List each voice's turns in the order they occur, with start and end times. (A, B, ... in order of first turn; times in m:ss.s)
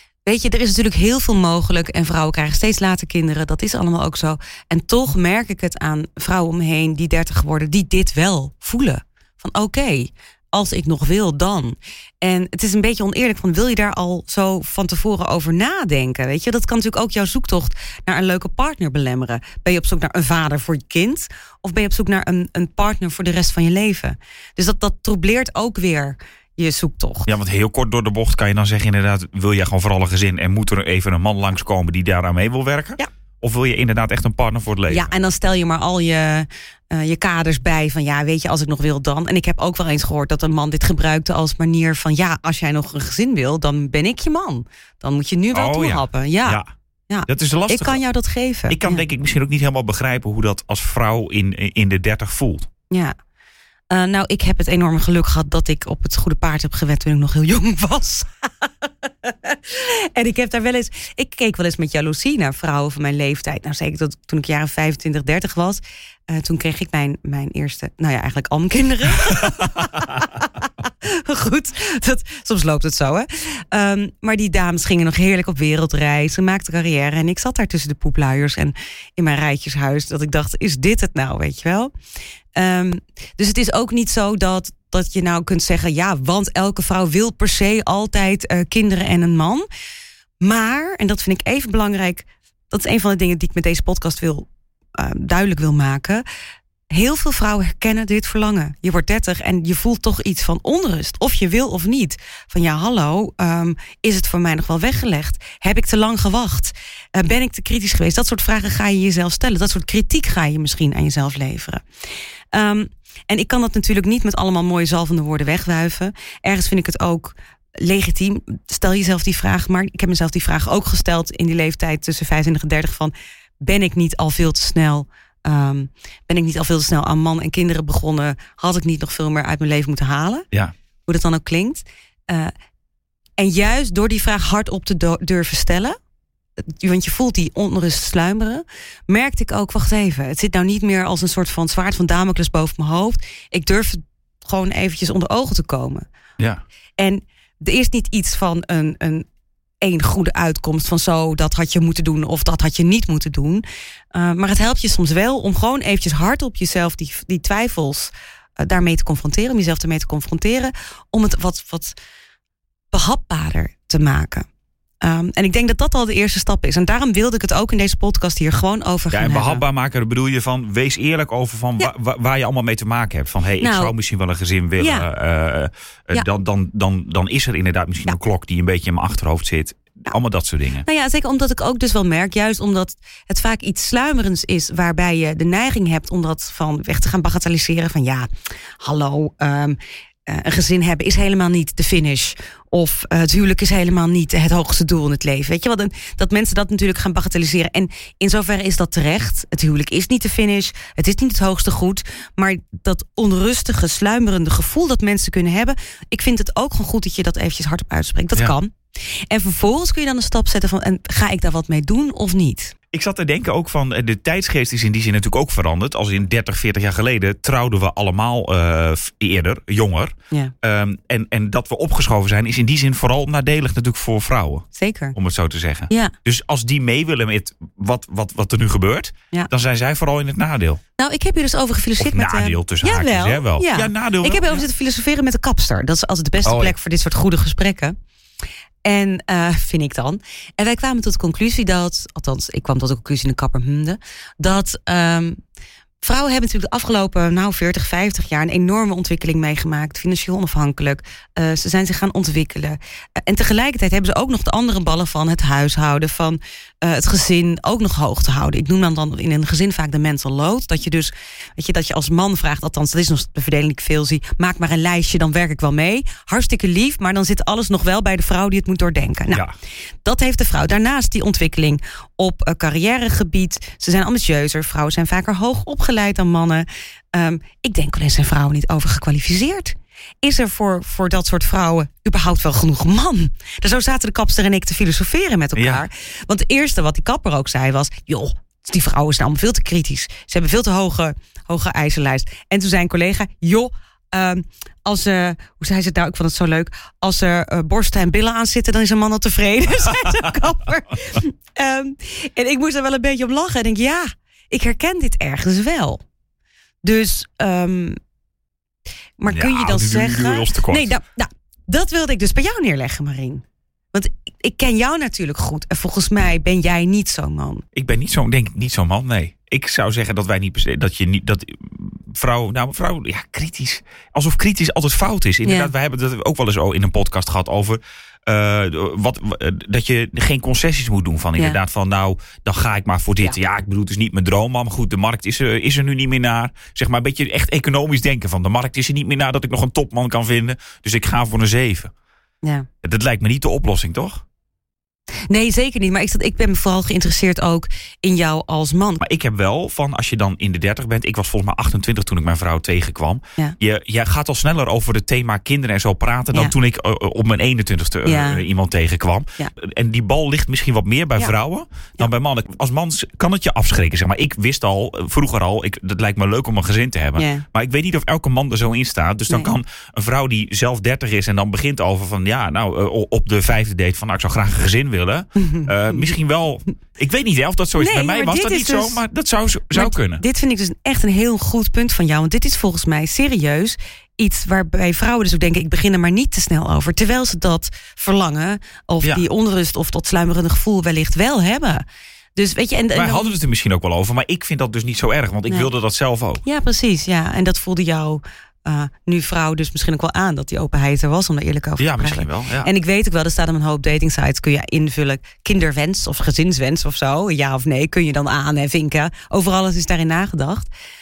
0:00.3-0:27.3 A
0:27.3-0:35.1 B
0:34.9-0:49.0 A
0:45.5-0:46.7 B
0:47.3-0:48.0 B
0:48.7-0:52.7 B
0:52.9-0:53.2 A
0:53.9-0:58.6 A
0:59.2-1:21.9 A
1:22.6-1:29.7 A
1:30.4-1:36.2 A
1:36.9-1:51.8 A
1:52.5-2:10.5 A
2:11.1-2:12.5 A
2:13.4-2:16.0 A
2:16.6-2:26.1 A
2:27.0-2:29.3 A
2:29.8-2:42.0 A
2:42.9-2:44.5 A
2:45.0-2:49.6 A
2:49.1-3:00.9 B
2:53.6-2:53.9 A
2:54.8-2:55.1 A
3:00.8-3:08.3 A
3:08.8-3:28.8 A
3:29.3-3:32.8 A
3:32.9-3:50.8 B
3:44.8-3:45.2 A
3:51.0-3:58.0 A
3:52.0-3:54.6 B
3:56.4-3:56.7 B
3:58.8-4:05.4 A
4:06.0-4:29.5 A
4:30.0-5:06.0 A
4:45.6-4:45.8 B
5:06.8-5:08.0 A
5:09.2-5:17.6 A
5:09.3-5:10.9 B
5:17.7-5:41.9 B
5:25.4-5:25.7 A
5:42.8-5:44.2 B
5:45.3-5:49.0 A
5:49.0-6:20.2 B
5:58.1-5:58.4 A
6:07.2-6:07.4 A
6:15.4-6:16.0 A
6:17.8-6:19.0 A
6:19.7-6:31.8 A
6:32.4-6:33.4 A
6:32.9-6:36.4 B
6:36.4-6:50.7 A
6:41.8-6:42.7 B